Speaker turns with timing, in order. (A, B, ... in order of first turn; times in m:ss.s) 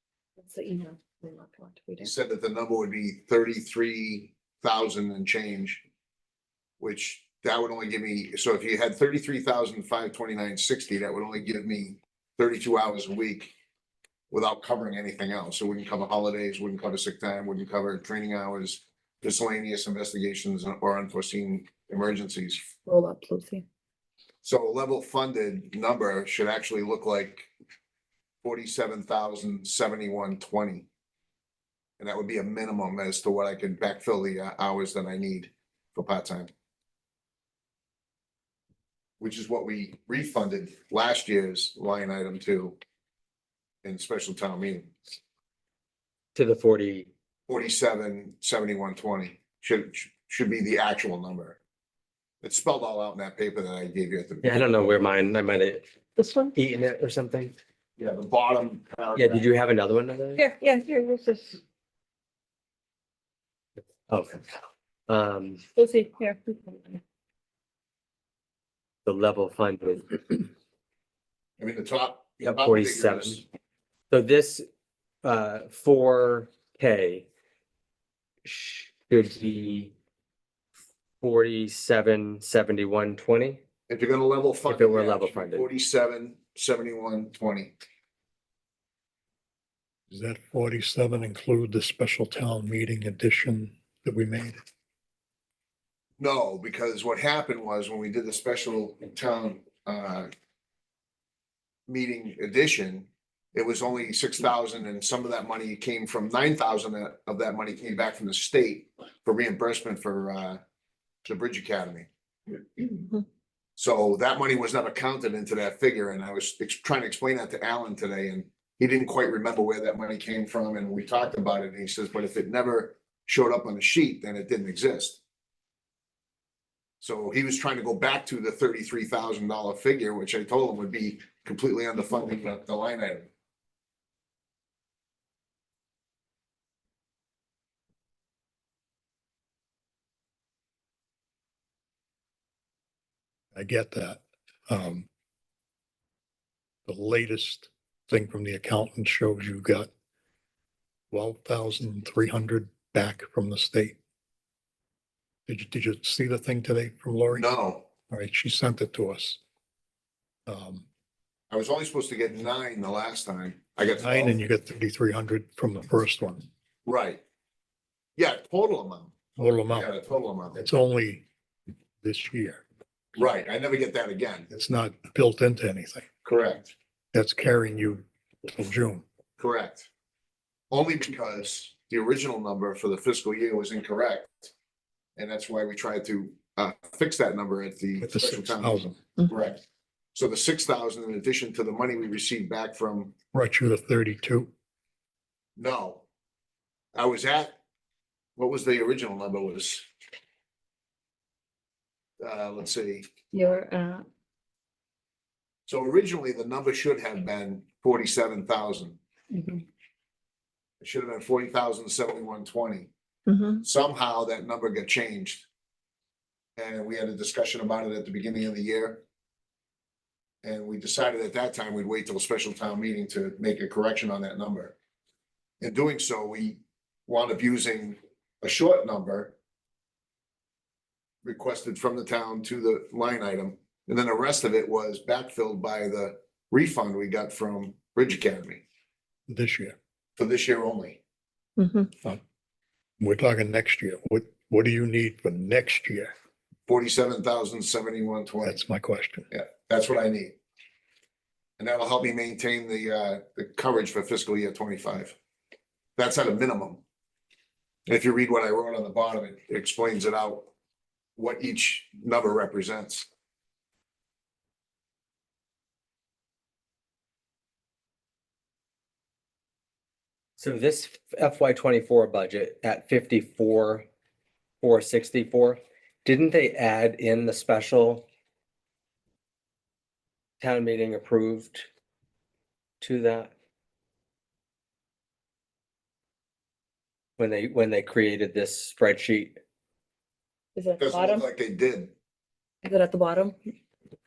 0:00.4-0:02.1 A
0:02.0-0:05.8 B
0:06.8-0:13.5 B
0:14.3-0:22.6 B
0:22.9-0:23.6 A
0:24.4-0:27.5 B
0:28.4-0:30.9 B
0:32.0-0:36.5 B
0:39.2-0:42.8 B
0:43.8-0:45.0 B
0:46.4-0:47.1 C
0:47.5-0:51.6 B
0:52.4-0:54.6 B
0:54.4-0:55.9 C
0:56.2-0:56.5 A
0:56.6-0:57.6 C
0:58.0-0:59.5 B
0:59.2-1:00.4 C
1:00.4-1:01.6 A
1:04.1-1:04.4 C
1:05.1-1:05.6 C
1:05.8-1:07.0 A
1:09.0-1:10.5 C
1:11.6-1:13.4 B
1:12.4-1:13.4 C
1:14.1-1:14.7 C
1:15.2-1:17.3 C
1:18.4-1:19.9 C
1:21.2-1:23.6 C
1:23.9-1:27.8 B
1:24.7-1:25.7 C
1:30.1-1:34.6 D
1:36.2-1:40.3 B
1:41.9-1:50.6 B
1:51.2-1:52.1 B
1:53.8-2:05.2 B
2:07.0-2:13.3 B
2:23.6-2:25.1 D
2:26.9-2:29.9 D
2:31.1-2:34.0 D
2:35.5-2:37.5 D
2:37.3-2:37.9 B
2:38.0-2:39.4 D
2:40.5-2:40.8 D
2:41.5-2:44.4 B
2:44.0-2:46.4 D
2:46.9-2:47.2 B
2:48.2-2:49.1 B
2:49.4-2:49.9 D
2:49.7-2:50.6 B
2:50.6-2:51.3 D
2:52.0-2:52.6 D
2:53.2-2:54.5 B
2:54.5-2:56.1 D
2:56.2-2:56.8 B
2:57.1-2:59.0 D
2:59.4-2:59.9 B
3:00.7-3:04.5 B
3:05.2-3:09.6 B
3:08.0-3:09.0 D
3:10.1-3:13.1 B
3:13.3-3:14.5 D
3:15.6-3:16.0 B
3:17.0-3:17.6 B
3:18.4-3:19.9 B
3:22.2-3:23.1 B
3:23.3-3:24.0 A
3:25.7-3:29.0 B
3:29.3-3:29.6 A
3:30.8-3:32.9 B
3:33.3-3:33.6 A
3:33.6-3:35.5 B
3:36.6-3:39.0 B
3:40.4-3:44.8 B
3:45.6-3:49.4 B
3:51.2-3:58.6 B
3:59.3-3:59.8 D
4:00.2-4:01.0 B
4:01.6-4:01.9 A
4:03.0-4:06.1 D
4:06.7-4:08.6 B
4:08.4-4:09.3 D
4:09.3-4:10.4 B
4:11.6-4:15.2 B
4:16.0-4:16.8 B
4:17.9-4:20.5 B
4:21.2-4:23.1 B
4:30.4-4:33.9 C
4:34.6-4:38.1 C
4:40.4-4:41.7 C
4:42.8-4:43.3 C
4:47.2-4:49.4 C
4:50.6-4:51.3 A
4:50.8-4:51.9 B
4:52.6-4:53.4 A